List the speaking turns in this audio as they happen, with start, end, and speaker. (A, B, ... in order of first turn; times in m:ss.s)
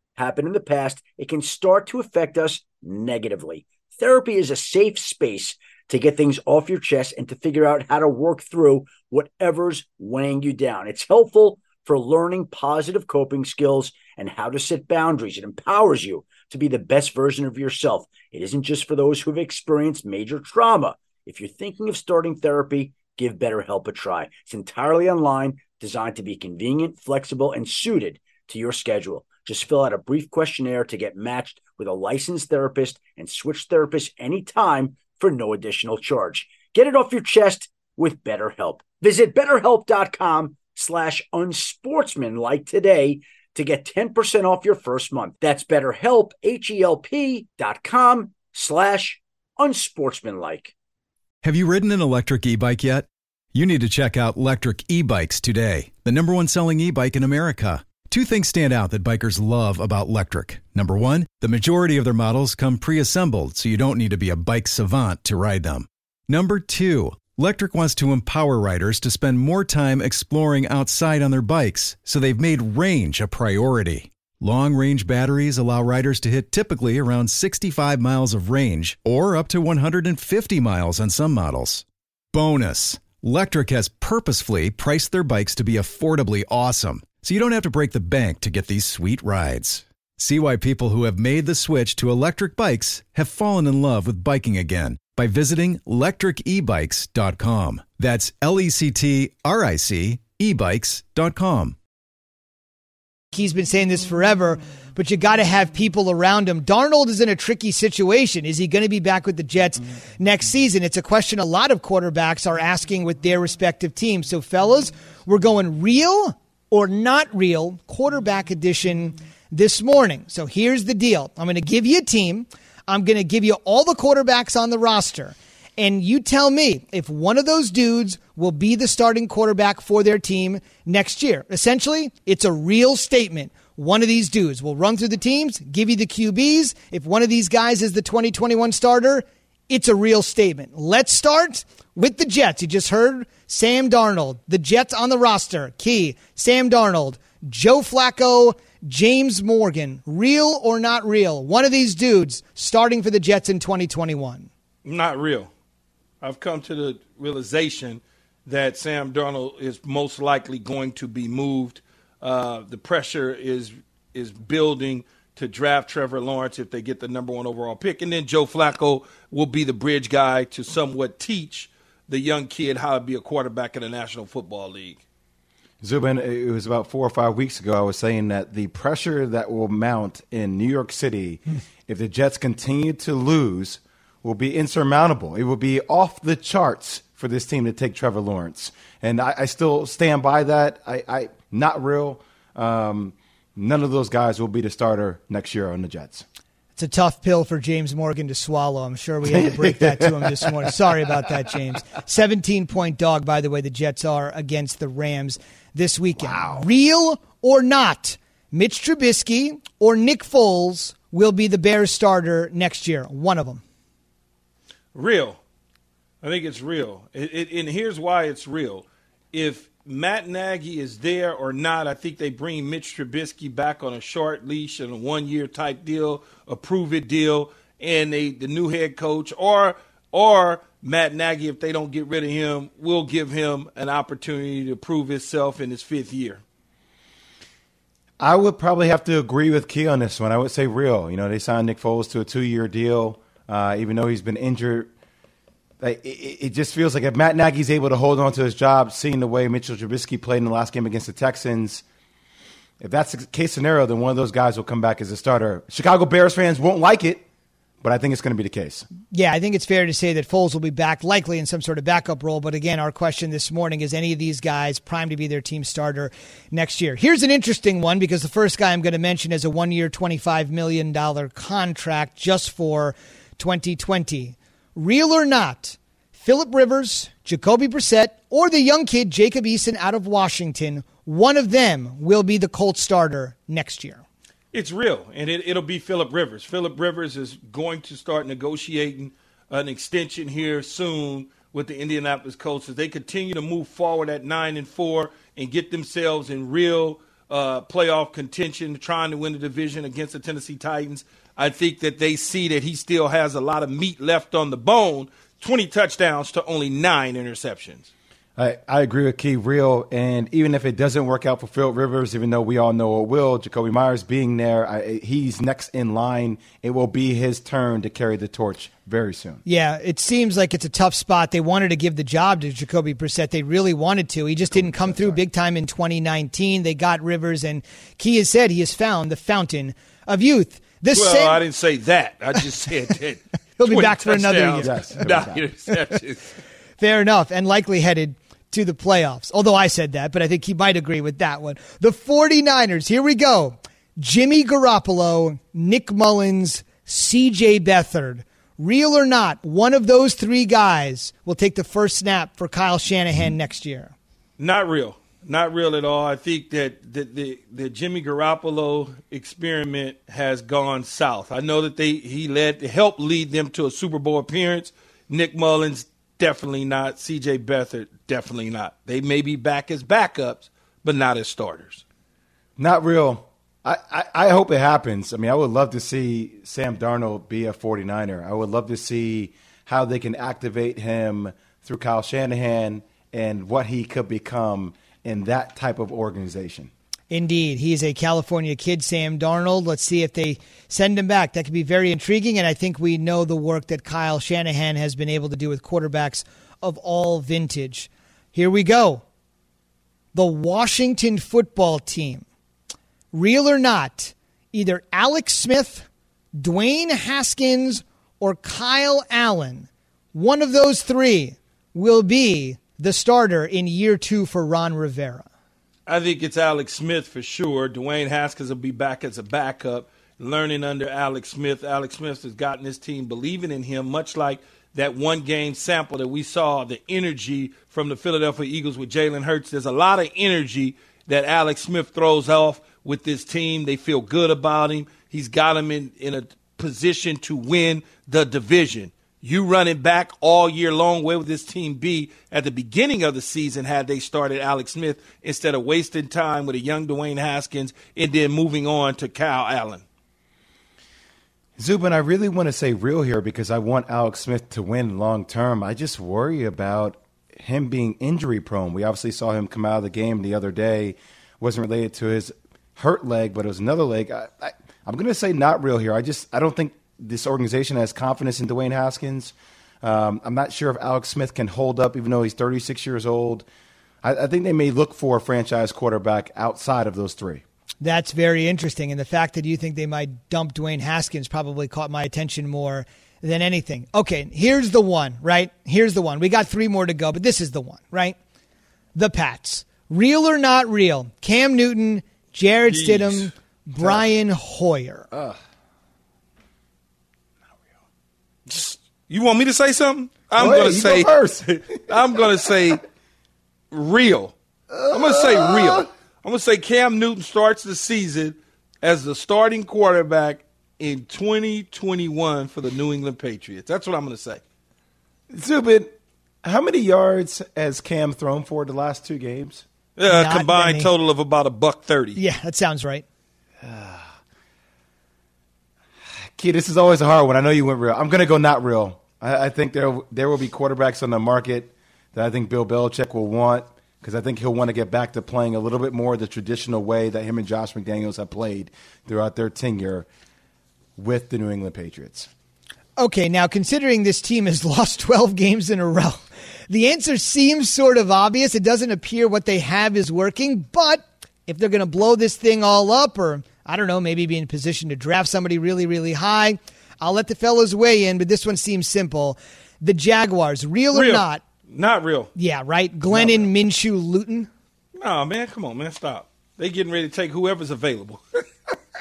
0:00.2-0:50.7 A
0:51.4-1:41.8 B
1:43.3-2:34.5 C
2:34.8-2:35.5 D
2:36.2-2:55.0 D
2:55.8-3:16.2 E
3:16.8-3:33.6 C
3:19.4-3:20.5 E
3:26.3-3:26.6 E
3:34.9-3:35.4 D
3:36.2-3:56.4 D
3:58.2-4:04.9 E
4:05.8-4:11.8 E
4:12.8-4:17.2 E
4:17.8-4:18.9 E
4:19.1-4:44.0 C
4:44.5-5:07.9 D
5:08.4-5:19.4 E
5:19.5-5:31.4 C
5:24.5-5:25.2 E
5:30.9-5:36.3 D
5:33.6-5:34.8 C
5:34.6-5:35.4 E
5:36.8-5:54.0 C
5:54.4-6:11.8 D
6:12.6-6:26.7 E
6:27.1-6:39.0 C
6:40.1-6:42.2 C
6:43.1-6:45.9 C
6:46.4-6:55.3 C
6:55.9-7:29.8 D
7:31.6-7:53.5 E
7:54.0-7:57.4 E
7:57.8-8:08.2 C
8:09.0-8:15.1 C
8:12.7-8:13.3 D
8:15.1-8:15.4 E
8:18.5-8:22.8 D
8:20.4-8:22.0 E
8:23.7-8:24.3 D
8:24.7-8:25.9 E
8:24.9-8:34.4 D
8:35.3-8:39.6 E
8:40.0-8:42.2 D
8:40.1-8:40.9 C
8:42.2-8:43.0 C
8:43.6-8:44.1 E
8:46.4-9:00.1 E
9:01.0-9:02.3 E
9:03.0-9:21.4 C
9:20.9-9:22.3 D
9:22.4-9:24.5 C
9:25.0-9:28.4 D